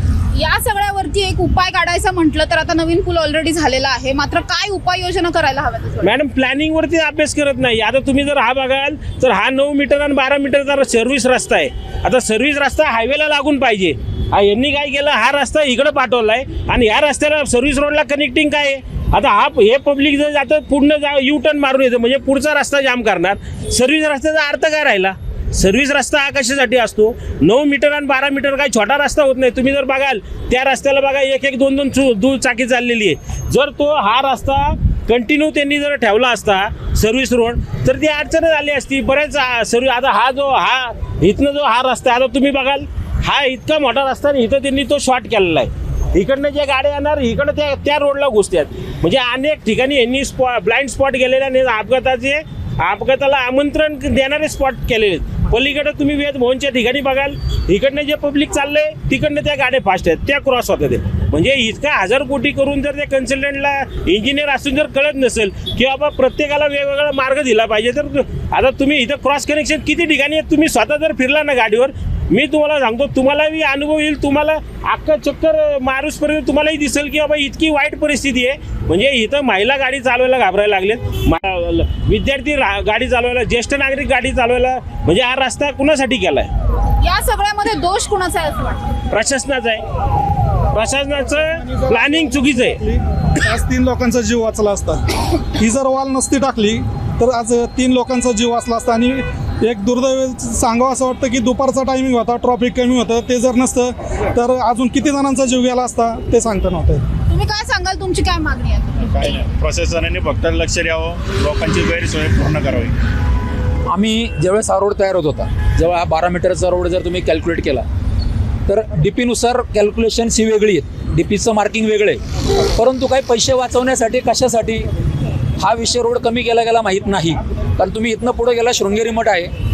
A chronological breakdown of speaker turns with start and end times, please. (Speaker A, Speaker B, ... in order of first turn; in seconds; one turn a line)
Speaker A: 0.3-6.1
Speaker B: 6.0-86.5
Speaker A: 87.0-88.9
Speaker B: 89.1-89.8
Speaker B: 90.7-92.8
Speaker C: 91.6-107.0
Speaker A: 107.3-109.3
Speaker D: 109.1-112.9
Speaker E: 113.9-117.8
Speaker E: 118.7-122.2
Speaker E: 122.7-124.9
Speaker E: 125.6-129.5